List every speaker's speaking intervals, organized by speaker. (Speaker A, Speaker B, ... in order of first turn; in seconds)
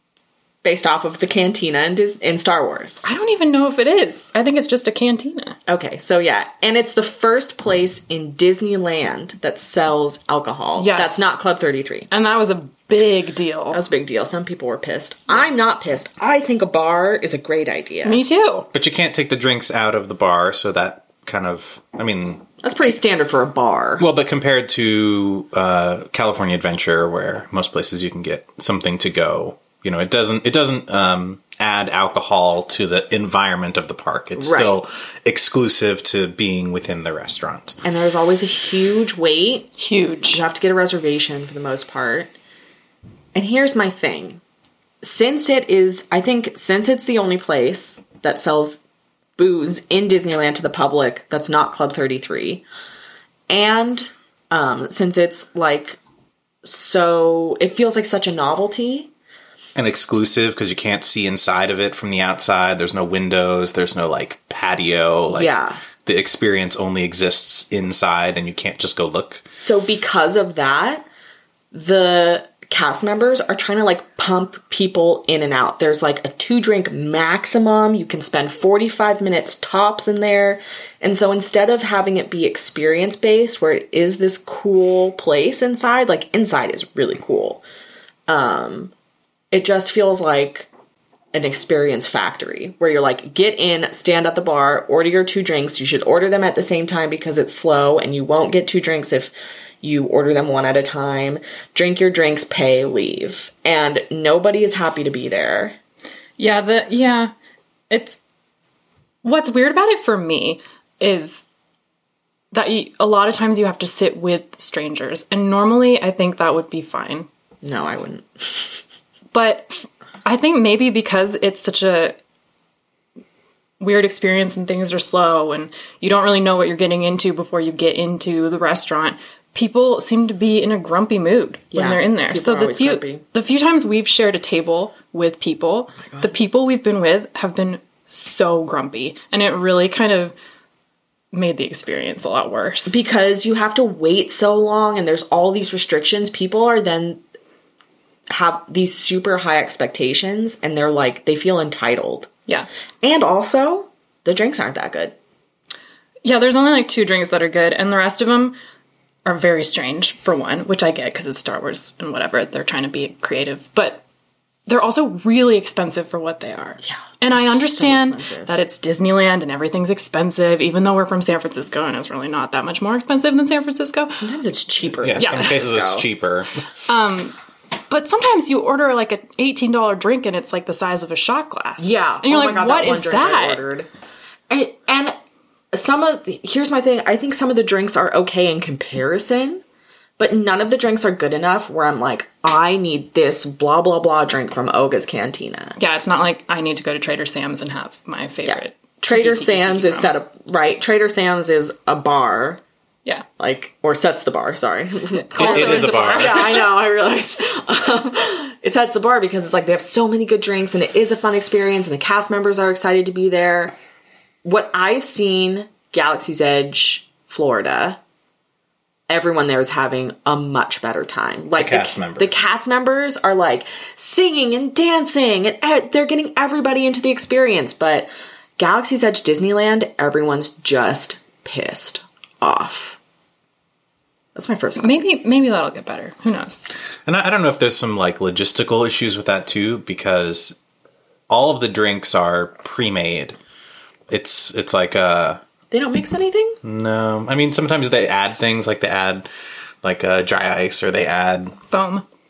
Speaker A: 0.6-3.1, 5.7-12.1, 13.7-18.2, 22.6-24.1, 34.4-34.8, 37.8-39.7, 40.3-42.3, 43.4-44.4, 45.0-48.8, 49.4-52.6, 53.5-56.0, 56.6-59.1, 65.3-65.8, 69.6-71.1, 71.7-87.6, 88.3-88.9, 89.5-90.7, 91.3-105.8, 117.6-118.8, 131.7-133.2, 142.9-147.2, 148.3-152.3, 153.0-155.2, 166.8-168.5, 174.1-176.1, 181.8-183.9, 184.5-185.2, 185.7-189.6, 190.2-195.8, 198.4-202.6, 203.4-213.8, 214.4-218.0, 219.1-233.0, 234.4-235.0, 245.7-246.6
Speaker B: 3.0-5.6, 10.8-11.2, 12.1-13.8, 18.0-18.7, 39.8-40.4, 106.4-107.3, 107.9-108.2, 109.2-111.4, 112.5-117.3, 119.3-122.2, 123.8-140.3, 141.3-143.0, 156.2-158.6, 159.2-164.0, 164.7-174.2, 175.2-175.6, 176.9-177.4, 177.9-183.6, 195.8-200.1, 205.3-206.6, 234.8-236.7, 251.7-252.1
Speaker C: 18.7-22.5, 24.0-37.8, 59.8-65.5, 66.0-69.5, 175.0-176.6, 205.4-206.6, 221.6-222.4, 237.1-240.6, 241.3-243.4, 244.1-245.4, 246.6-249.3, 249.8-251.6